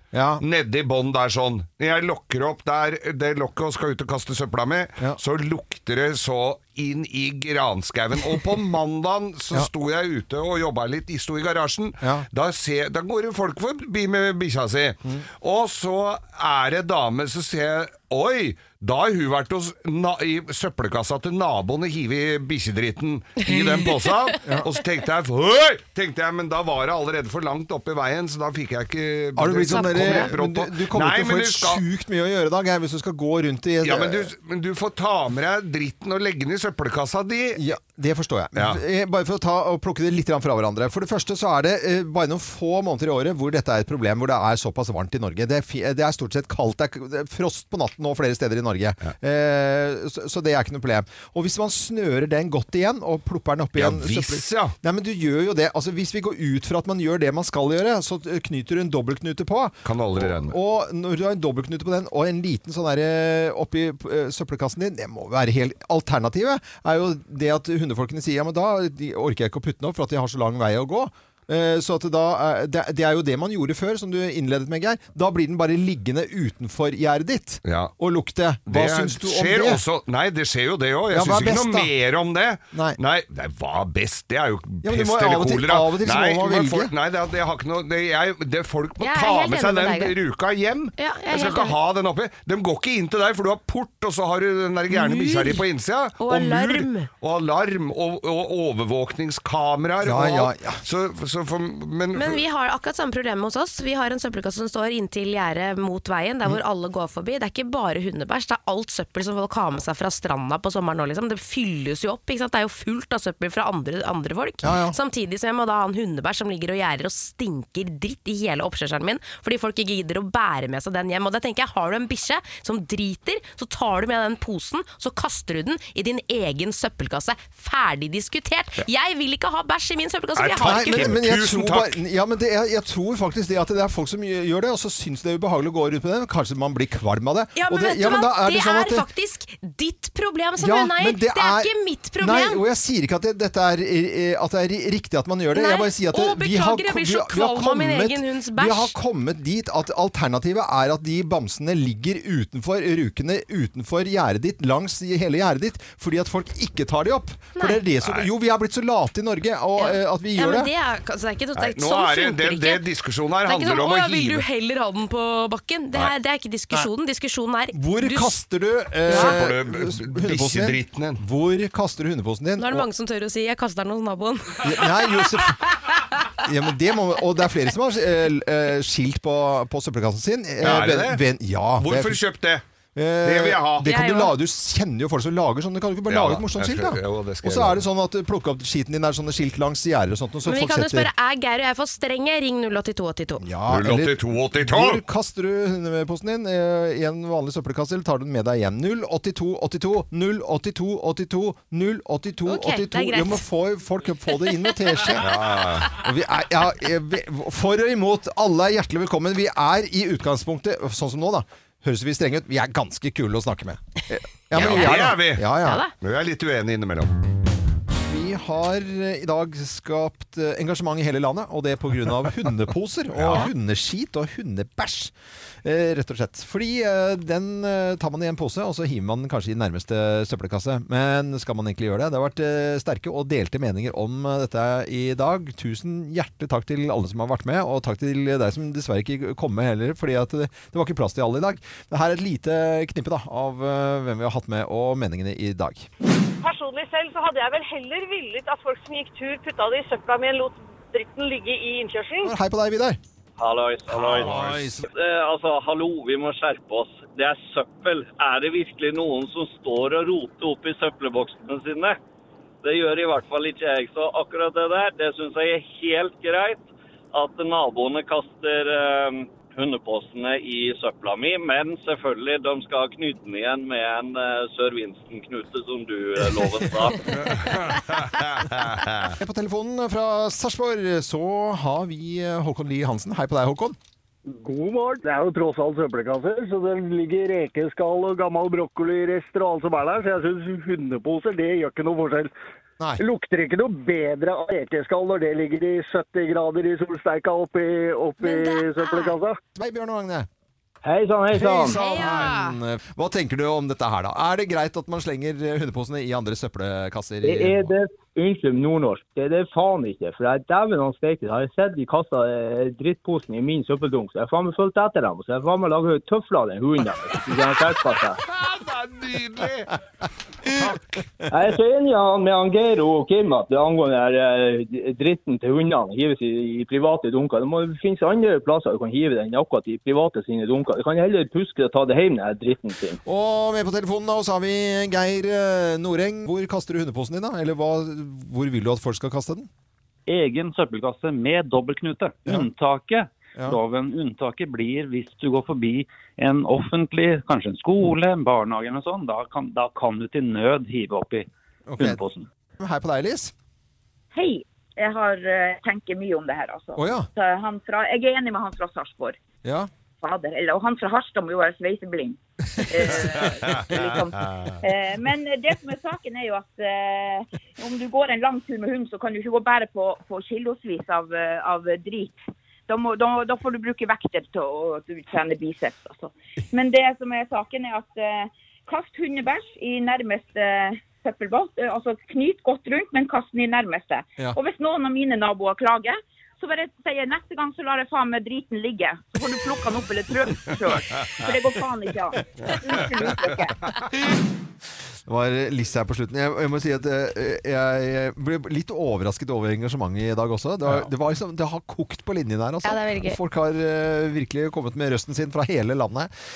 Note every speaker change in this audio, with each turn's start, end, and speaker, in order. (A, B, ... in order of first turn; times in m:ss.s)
0:00.1-0:00.4 A
0:00.4-0:31.8 B
0:29.4-0:34.3 A
0:29.7-0:30.3 C
0:33.8-0:37.6 B
0:37.6-1:19.8 A
0:38.5-0:38.8 B
0:53.7-0:54.7 B
0:59.8-1:00.6 B
1:17.6-1:17.9 B
1:18.7-1:42.4 B
1:21.1-1:21.9 A
1:22.7-1:23.0 A
1:24.8-1:26.9 A
1:29.0-1:30.1 C
1:31.0-1:31.7 C
1:34.9-1:35.6 C
1:36.2-1:37.1 C
1:40.0-1:40.8 A
1:42.1-2:11.1 C
1:54.6-1:55.0 A
2:10.4-2:12.0 B
2:10.6-2:19.0 A
2:17.6-2:22.6 C
2:20.6-2:40.7 A
2:25.5-2:28.9 C
2:38.0-2:38.3 B
2:39.8-2:42.8 C
2:41.6-2:44.4 B
2:43.4-2:48.4 C
2:47.7-2:52.9 A
2:49.1-2:49.4 C
2:49.1-2:51.2 B
2:52.6-2:56.0 C
2:54.6-2:55.6 A
2:56.4-3:02.2 A
3:00.6-3:01.2 B
3:01.8-3:02.6 B
3:02.9-3:11.1 A
3:03.2-3:03.9 B
3:03.8-3:04.3 C
3:06.1-3:07.8 B
3:10.4-3:13.4 C
3:13.4-3:35.8 A
3:13.7-3:15.0 B
3:22.5-3:23.4 C
3:25.2-3:25.9 B
3:34.5-3:37.1 B
3:34.6-3:34.9 C
3:35.6-3:35.9 C
3:38.1-3:45.1 A
3:43.1-3:43.5 B
3:45.6-4:05.9 A
4:06.4-4:12.3 D
4:12.2-4:13.0 A
4:13.4-4:14.4 E
4:14.0-4:14.8 B
4:14.0-4:14.9 A
4:14.9-4:22.0 E
4:22.6-4:37.2 E
4:37.2-4:39.1 B
4:39.1-4:43.8 A
4:44.3-4:52.3 F
4:53.0-4:59.4 F
4:58.2-4:59.2 C
4:59.5-5:00.3 A
5:00.8-5:01.8 G
5:01.3-5:07.7 A
5:01.7-5:02.6 C
5:07.2-5:18.2 G
5:18.2-5:19.7 B
5:20.4-5:20.8 B
5:21.3-5:33.0 G
5:33.0-5:39.5 A
5:40.1-5:51.3 H
5:51.7-5:52.0 A
5:51.8-5:52.3 H
5:52.6-5:53.3 A
5:54.1-5:59.2 I
5:56.8-5:57.1 A
5:59.4-5:59.7 A
6:00.0-6:33.5 I
6:35.0-6:46.1 A
6:42.6-6:43.2 C